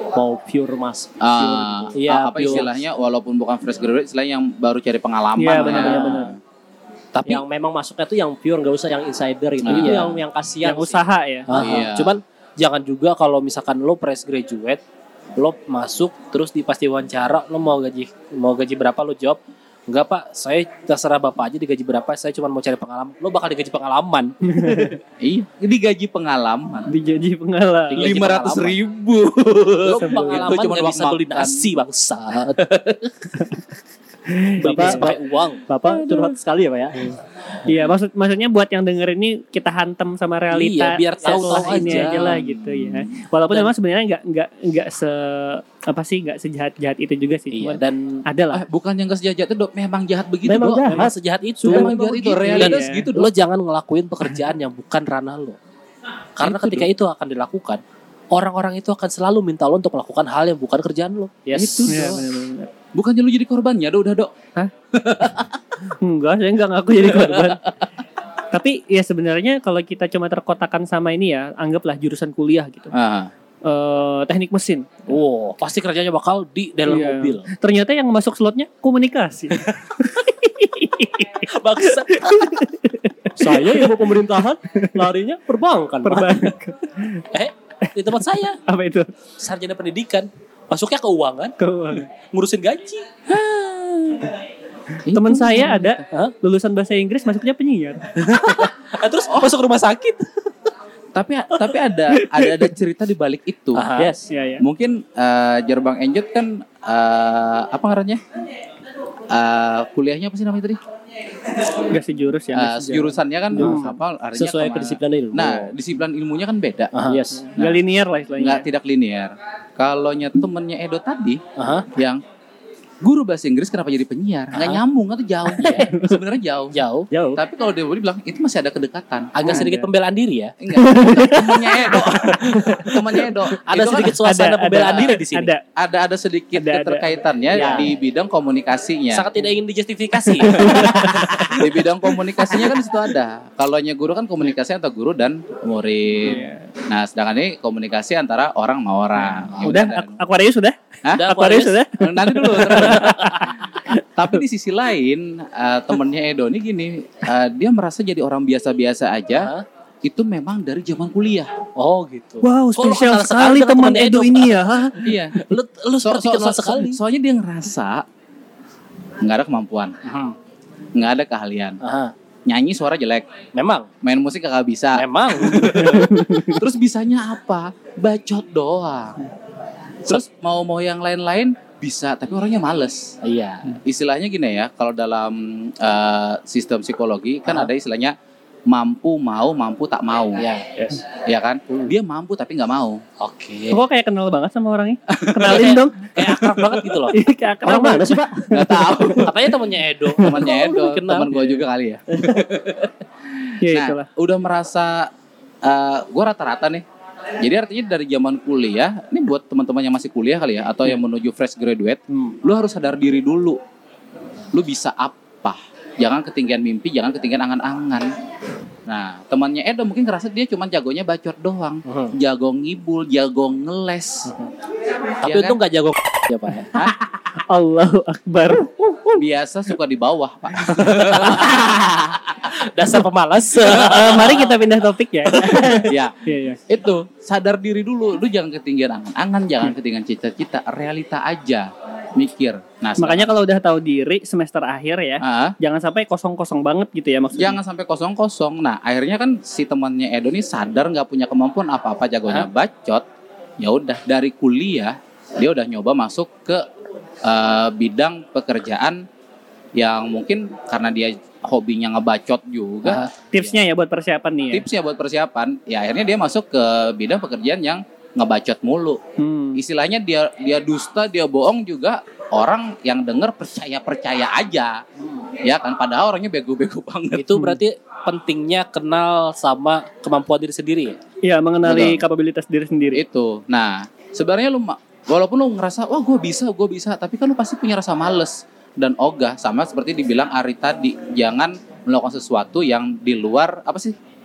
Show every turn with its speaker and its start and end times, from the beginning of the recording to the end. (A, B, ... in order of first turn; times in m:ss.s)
0:00.1-0:02.8 A
0:01.2-0:06.4 B
0:02.0-0:02.7 C
0:05.4-0:06.3 D
0:05.6-0:06.1 A
0:07.2-0:07.4 C
0:07.3-0:11.0 A
0:09.6-0:10.2 B
0:09.7-0:10.2 C
0:10.6-0:11.5 D
0:11.5-0:14.8 C
0:11.5-0:12.2 B
0:15.4-0:25.0 C
0:24.4-0:25.0 D
0:25.2-0:26.9 B
0:26.9-0:28.1 D
0:27.9-0:28.8 C
0:27.9-0:31.8 B
0:29.8-0:33.3 C
0:30.0-0:30.5 D
0:34.3-0:35.0 D
0:34.6-0:37.1 A
0:34.6-0:35.6 C
0:37.7-0:48.6 D
0:40.5-0:42.4 C
0:41.2-0:43.1 B
0:47.5-0:48.2 C
0:48.5-0:50.8 B
0:50.4-0:52.5 A
0:50.8-0:52.0 C
0:51.6-0:53.3 B
0:52.3-0:53.1 D
0:52.6-0:55.6 C
0:56.4-0:57.8 C
0:56.4-0:56.8 D
0:58.3-1:02.0 C
1:01.6-1:02.2 B
1:01.9-1:02.7 D
1:02.9-1:04.3 B
1:04.9-1:05.6 B
1:06.0-1:07.6 D
1:07.1-1:07.6 B
1:08.5-1:12.9 D
1:12.9-1:13.3 B
1:13.6-1:14.9 D
1:15.1-1:17.5 C
1:16.9-1:24.0 D
1:21.5-1:22.6 C
1:23.4-1:26.5 A
1:24.7-1:25.0 D
1:26.0-1:27.2 D
1:27.3-1:28.6 C
1:28.7-1:29.1 D
1:29.4-1:31.6 C
1:31.6-1:32.1 D
1:32.3-1:33.0 C
1:33.3-1:34.3 B
1:35.1-1:36.1 B
1:35.1-1:38.1 D
1:38.2-1:40.5 C
1:41.2-1:43.9 B
1:42.2-1:42.7 D
1:43.7-1:44.2 C
1:44.0-1:44.3 A
1:44.3-1:44.6 D
1:44.6-1:48.2 B
1:49.3-1:50.8 B
1:51.9-1:53.9 D
1:52.5-1:56.9 B
1:53.5-1:55.7 A
1:56.9-1:57.2 C
1:57.0-1:57.5 A
1:57.4-1:58.6 D
1:58.4-2:01.4 B
2:01.6-2:01.9 C
2:02.0-2:02.2 B
2:03.0-2:06.8 B
2:04.5-2:04.8 C
2:05.5-2:05.9 C
2:05.7-2:06.2 D
2:06.7-2:07.1 C
2:07.1-2:07.4 A
2:07.4-2:09.7 B
2:09.4-2:10.5 C
2:09.4-2:09.9 D
2:10.6-2:14.2 B
2:10.7-2:12.9 D
2:13.7-2:15.5 C
2:14.0-2:15.6 D
2:15.8-2:19.3 B
2:16.6-2:17.8 D
2:17.5-2:17.9 A
2:19.1-2:21.6 C
2:20.2-2:21.8 D
2:20.5-2:30.2 B
2:22.4-2:22.8 D
2:26.2-2:26.7 D
2:29.2-2:29.6 C
2:29.6-2:34.0 D
2:31.1-2:31.9 C
2:32.0-2:39.5 B
2:32.8-2:33.5 C
2:39.3-2:39.6 C
2:40.0-2:41.5 B
2:41.8-2:47.0 C
2:42.4-2:45.0 D
2:45.0-2:45.4 B
2:46.0-2:48.0 B
2:49.2-2:50.0 B
2:50.0-2:50.4 C
2:51.0-2:51.8 B
2:51.8-2:52.1 C
2:52.5-2:53.3 B
2:53.5-2:53.9 C
2:54.0-2:59.2 B
2:55.0-2:56.4 C
2:55.7-2:56.6 D
3:00.0-3:03.2 B
3:03.2-3:03.8 C
3:03.8-3:08.2 B
3:08.7-3:10.5 B
3:10.4-3:11.0 C
3:11.1-3:13.0 B
3:13.2-3:13.8 C
3:13.7-3:16.1 D
3:15.1-3:16.8 B
3:15.4-3:17.2 C
3:17.1-3:19.0 D
3:17.6-3:18.8 A
3:18.5-3:19.4 B
3:19.2-3:21.5 C
3:20.2-3:20.6 D
3:20.2-3:25.1 B
3:23.6-3:24.1 D
3:25.6-3:26.8 B
3:27.4-3:33.6 B
3:34.5-3:38.1 B
3:38.9-3:44.3 B
3:41.9-3:42.1 C
3:45.2-3:45.6 B
3:45.2-3:46.8 C
3:47.5-3:49.2 D
3:49.1-3:52.4 B
3:50.8-3:51.7 C
3:52.4-3:54.6 C
3:53.6-3:56.6 D
3:55.3-3:55.8 C
3:55.9-3:56.2 B
3:56.7-4:03.3 B
4:03.0-4:07.6 D
4:05.2-4:05.6 B
4:07.4-4:13.0 B
4:13.6-4:16.7 B
4:17.2-4:19.0 B
4:19.8-4:23.5 B
4:22.8-4:23.1 C
4:23.3-4:24.6 D
4:24.5-4:29.0 B
4:29.2-4:29.6 D
4:29.6-4:34.8 B
4:35.4-4:37.4 B
4:37.2-4:41.0 C
4:41.2-4:43.0 D
4:41.6-4:42.0 B
4:42.9-4:54.0 B